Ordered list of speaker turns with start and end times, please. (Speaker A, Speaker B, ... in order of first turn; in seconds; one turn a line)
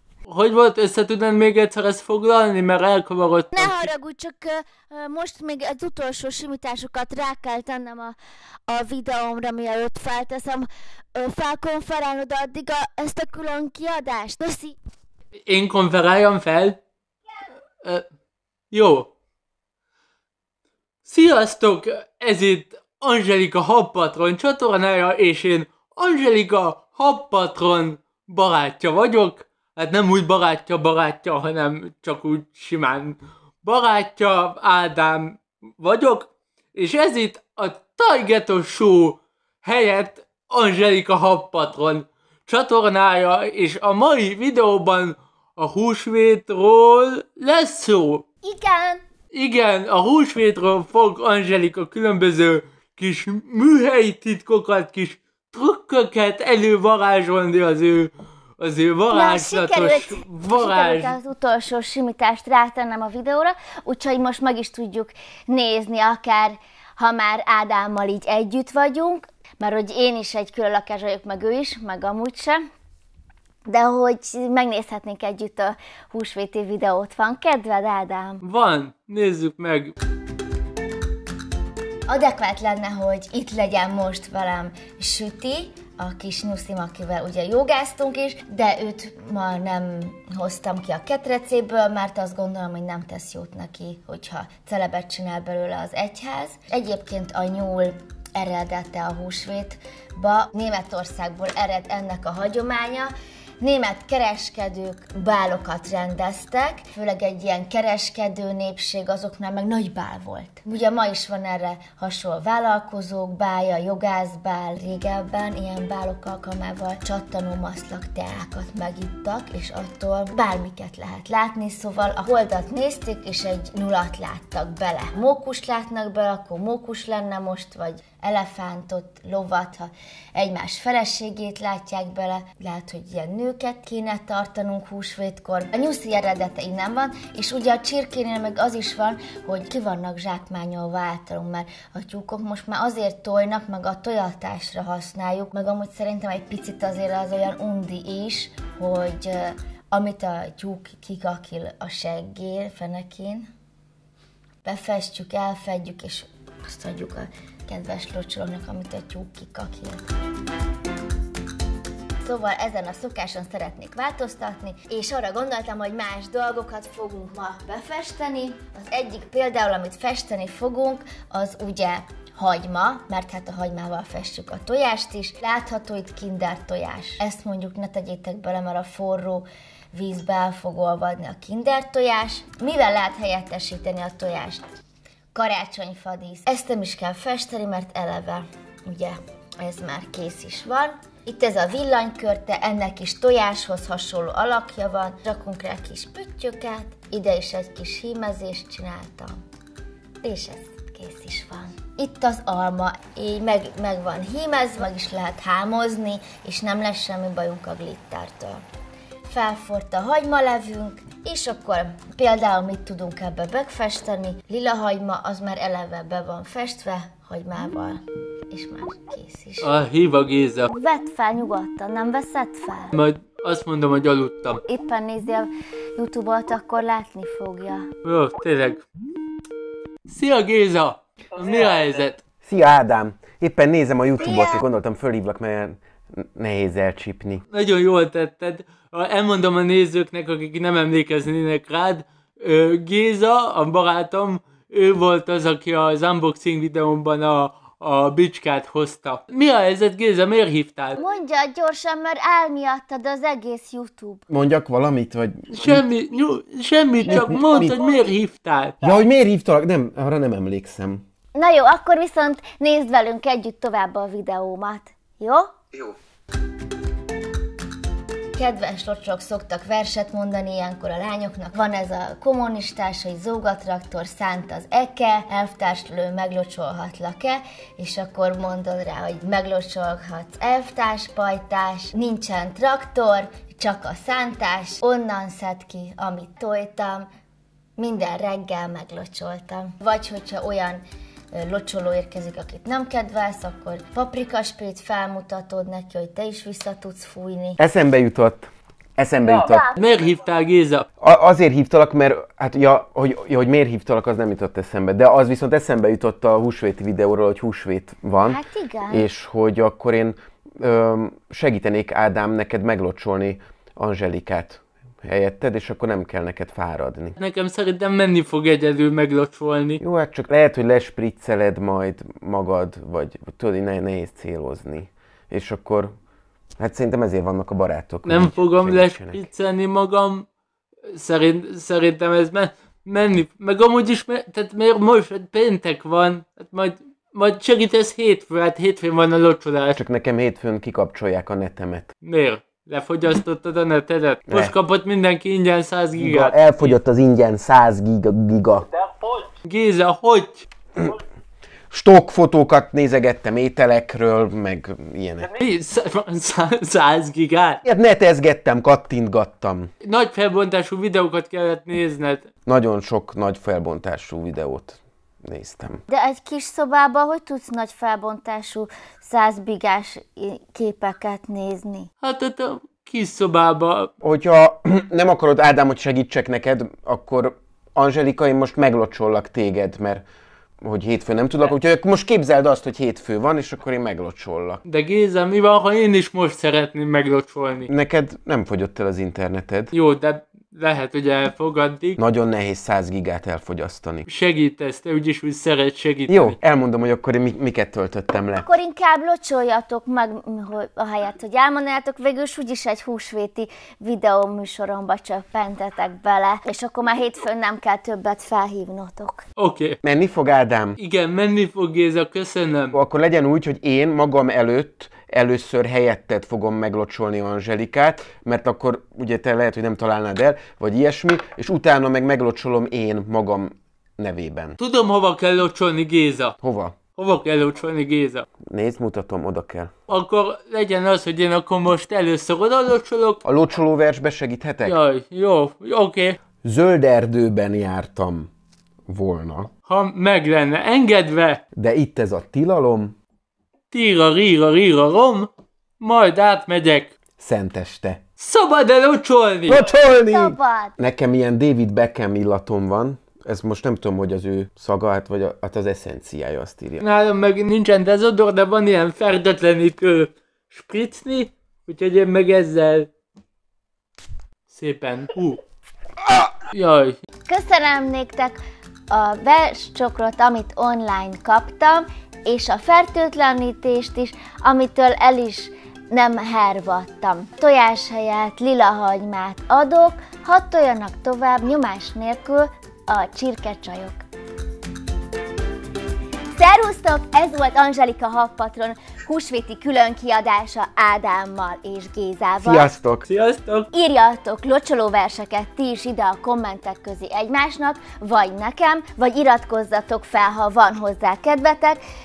Speaker A: 0.3-3.9
Speaker B: 3.5-8.2
Speaker B: 8.7-14.8
Speaker A: 15.5-16.8
Speaker A: 18.7-19.1
Speaker A: 21.1-48.2
Speaker B: 48.4-49.0
Speaker A: 49.3-61.1
Speaker B: 59.1-72.6
Speaker B: 73.7-78.4
Speaker A: 78.4-79.9
Speaker B: 82.1-153.5
Speaker B: 154.6-160.1
Speaker B: 162.2-184.7
Speaker B: 185.3-199.4
Speaker B: 200.2-208.6
Speaker B: 209.2-219.7
Speaker A: 219.6-220.7
Speaker B: 220.7-222.9
Speaker A: 222.9-224.6
Speaker B: 224.6-227.9
Speaker A: 228.0-228.8
Speaker A: 230.1-232.2
Speaker C: 232.4-237.4
Speaker B: 234.2-234.6
Speaker A: 237.5-251.0
Speaker B: 251.0-254.2
Speaker C: 254.3-255.8
Speaker A: 255.5-258.8
Speaker C: 257.1-257.8
Speaker C: 258.8-261.0
Speaker B: 261.3-265.5
Speaker B: 268.3-287.1
Speaker B: 287.8-297.6
Speaker C: 297.6-299.7
Speaker A: 299.8-300.8
Speaker C: 301.0-317.1
Speaker B: 308.2-309.1
Speaker A: 317.2-319.8
Speaker C: 319.8-325.9
Speaker C: 326.6-329.2
Speaker A: 328.1-330.2
Speaker A: 330.9-339.8
Speaker C: 339.8-341.9
Speaker A: 342.0-346.8
Speaker C: 344.3-344.5
Speaker C: 346.0-348.7
Speaker A: 349.2-350.4
Speaker C: 351.7-355.3
Speaker A: 355.4-357.6
Speaker C: 357.6-359.7
Speaker A: 359.8-362.2
Speaker C: 362.4-365.8
Speaker B: 365.9-371.9
Speaker A: 372.0-373.9
Speaker C: 374.0-380.0
Speaker C: 380.6-384.6
Speaker A: 384.6-387.7
Speaker C: 387.7-389.7
Speaker A: 389.7-392.0
Speaker C: 392.0-394.1
Speaker A: 394.1-396.4
Speaker C: 396.1-398.5
Speaker B: 398.4-409.2
Speaker A: 409.4-409.8
Speaker C: 409.8-410.8
Speaker A: 410.8-412.7
Speaker C: 412.7-424.6
Speaker A: 424.6-426.3
Speaker C: 426.4-426.8
Speaker A: 426.9-428.2
Speaker C: 428.5-429.7
Speaker A: 429.9-433.2
Speaker C: 433.2-434.7
Speaker A: 434.6-436.2
Speaker C: 436.4-438.3
Speaker C: 438.9-439.5
Speaker A: 439.7-441.4
Speaker C: 441.5-442.9
Speaker A: 443.7-445.3
Speaker A: 445.8-446.9
Speaker C: 447.2-448.0
Speaker A: 448.2-449.6
Speaker C: 449.5-456.8
Speaker B: 450.0-450.8
Speaker A: 456.8-462.9
Speaker A: 464.5-465.4
Speaker A: 466.5-467.0
Speaker B: 467.3-468.4
Speaker B: 468.9-484.0
Speaker B: 486.4-492.7
Speaker C: 492.4-493.1
Speaker A: 493.1-493.7
Speaker B: 493.7-501.8